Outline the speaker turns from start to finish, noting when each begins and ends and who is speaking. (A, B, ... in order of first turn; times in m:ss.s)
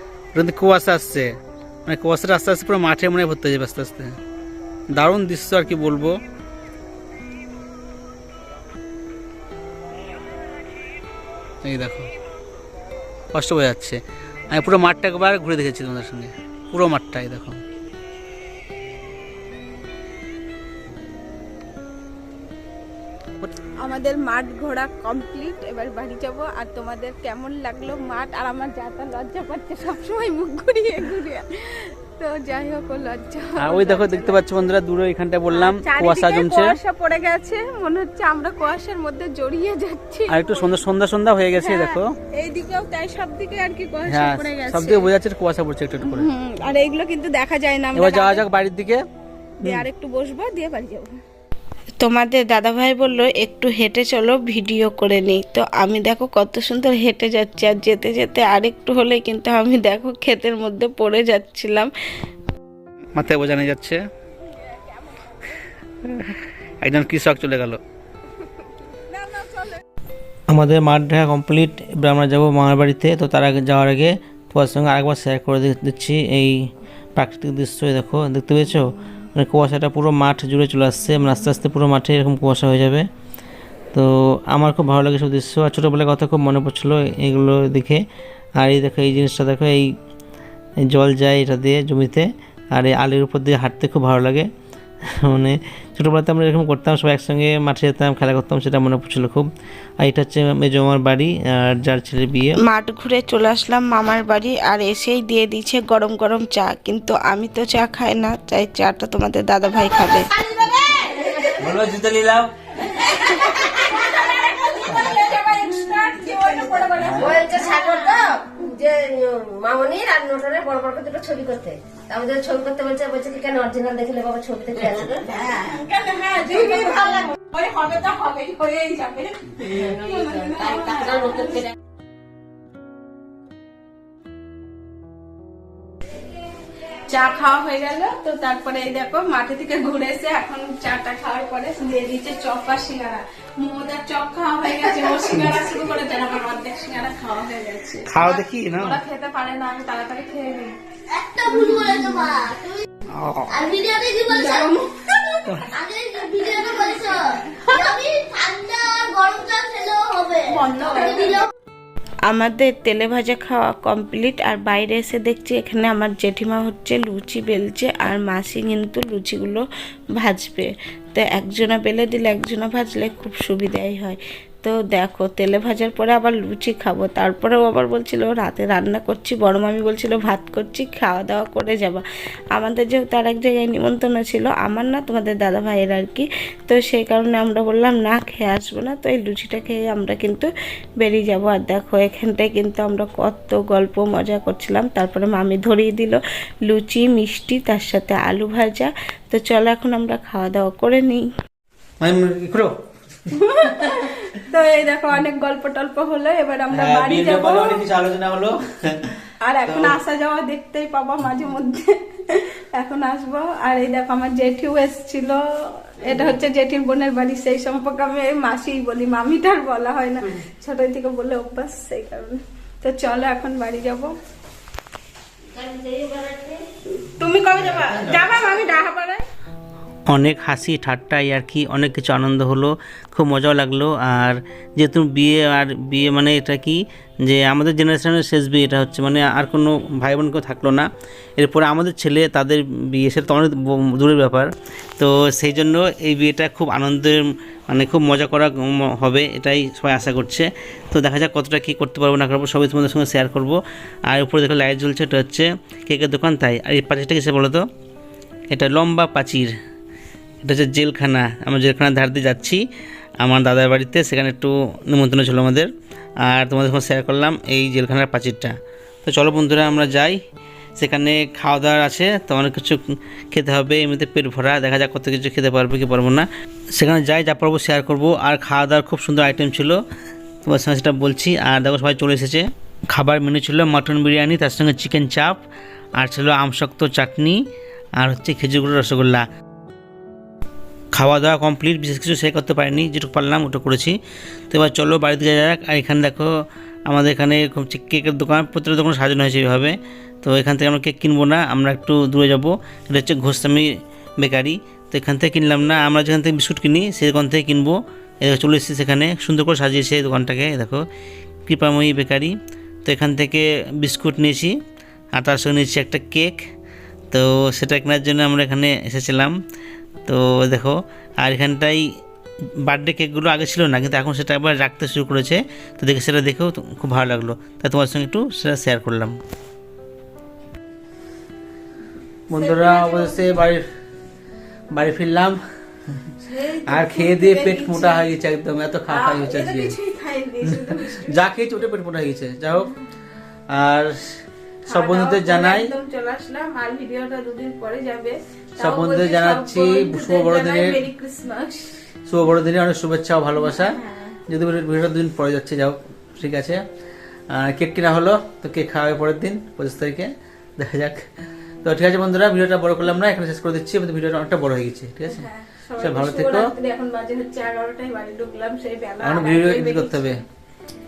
0:00.3-0:01.3 A
0:01.8-0:04.2 A
0:04.9-0:06.2 A
0:11.6-0:12.1 A
0:13.3-0:17.6 A
0:23.8-0:34.6 B
0:33.7-0:36.8 A
0:35.5-0:40.8 B
0:40.3-0:42.1 A
0:41.6-0:45.1 B
0:44.1-0:46.3 A
0:46.0-0:48.4 B
0:47.9-0:49.0 A
0:49.6-0:51.1 B
0:52.0-1:01.9 C
1:03.2-1:04.0 A
1:03.2-1:03.9 D
1:04.4-1:05.6 B
1:06.0-1:07.3 D
1:07.0-1:07.8 A
1:08.9-1:09.8 B
1:10.5-1:16.6 D
1:17.2-1:23.0 D
1:23.9-1:28.0 D
1:28.6-1:29.9 D
1:30.8-1:34.5 D
1:35.0-1:39.5 D
1:40.0-1:42.6 D
1:42.6-1:50.3 C
1:50.6-1:51.7 E
1:51.6-1:52.5 D
1:52.9-1:58.3 B
1:57.0-1:57.4 D
1:57.2-2:05.3 F
2:05.2-2:11.7 B
2:17.0-2:30.7 B
2:28.2-2:28.6 D
2:31.1-2:32.8 E
2:31.4-2:32.2 B
2:33.5-2:34.7 E
2:34.2-2:35.7 B
2:35.6-2:41.4 E
2:36.5-2:37.9 B
2:40.5-2:41.4 B
2:42.3-2:49.6 C
2:50.2-3:02.0 C
3:02.5-3:21.3 C
3:22.0-3:22.6 D
3:23.3-3:27.8 B
3:26.7-3:29.1 D
3:29.4-3:44.1 B
3:29.7-3:29.9 D
3:45.6-3:46.4 A
3:47.0-3:49.2 B
3:47.7-3:48.2 D
3:50.1-4:17.6 D
4:18.5-4:19.5 D
4:20.4-4:22.6 D
4:23.2-4:25.7 D
4:26.2-4:30.2 D
4:30.8-4:32.8 D
4:33.3-4:39.8 D
4:40.4-4:45.4 D
4:46.0-4:47.4 D
4:48.0-4:49.2 D
4:51.0-4:54.0 D
4:54.5-4:56.3 D
4:56.9-5:10.8 D
5:11.5-5:12.3 D
5:12.8-5:14.6 D
5:15.1-5:16.4 D
5:17.1-5:19.3 D
5:20.1-5:21.8 D
5:22.6-5:29.2 D
5:32.3-5:33.6 D
5:32.3-5:33.3 B
5:34.7-5:35.4 D
5:36.2-5:38.1 B
5:36.7-5:39.4 D
5:38.9-5:41.3 B
5:41.4-5:42.2 D
5:43.5-5:45.7 D
5:44.7-5:51.8 B
5:48.6-5:50.4 D
5:52.1-5:53.8 D
5:53.4-5:54.2 B
5:54.3-5:56.6 D
5:57.3-6:01.0 D
6:01.6-6:05.2 D
6:05.1-6:10.1 B
6:05.8-6:06.4 D
6:09.0-6:10.2 D